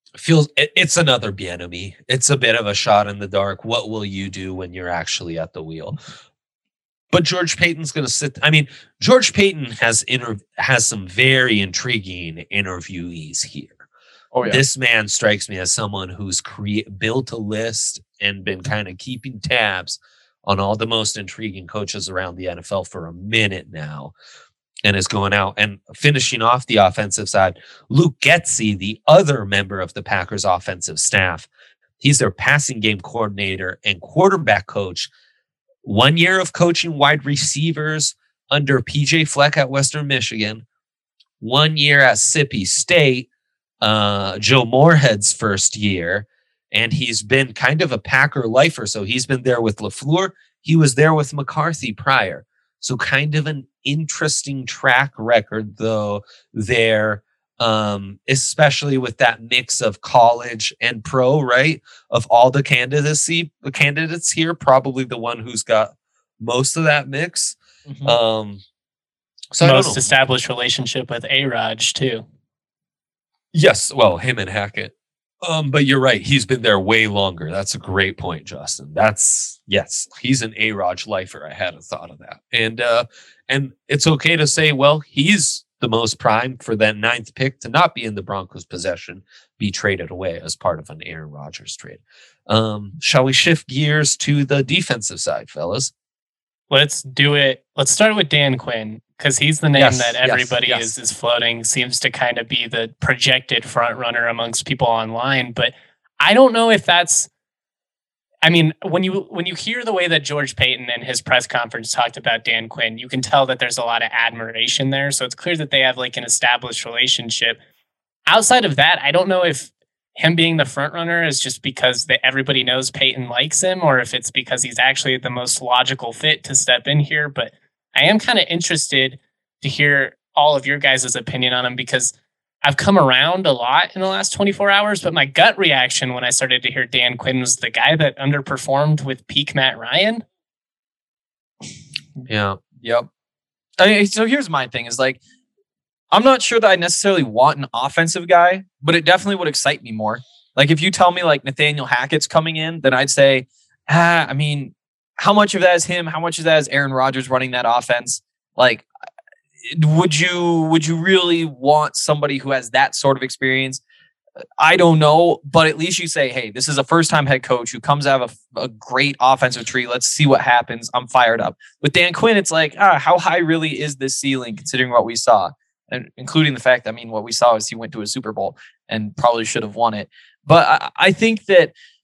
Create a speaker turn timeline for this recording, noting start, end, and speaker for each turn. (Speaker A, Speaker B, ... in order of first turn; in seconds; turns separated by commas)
Speaker A: 0.2-6.0, Speaker A: 7.1-13.8, Speaker B: 14.3-14.6, Speaker A: 14.4-24.1, Speaker A: 24.8-31.5, Speaker A: 32.0-35.1, Speaker A: 35.8-40.6, Speaker A: 41.4-43.3, Speaker A: 43.8-68.6, Speaker B: 67.8-68.2, Speaker A: 69.5-70.1, Speaker C: 69.6-72.2, Speaker A: 73.5-95.9, Speaker C: 96.7-107.3, Speaker A: 99.7-100.9, Speaker C: 108.4-117.6, Speaker C: 118.3-140.2, Speaker A: 142.3-142.6, Speaker B: 142.8-143.1, Speaker B: 143.8-145.2, Speaker B: 146.1-158.9, Speaker B: 159.7-163.8, Speaker B: 164.6-181.7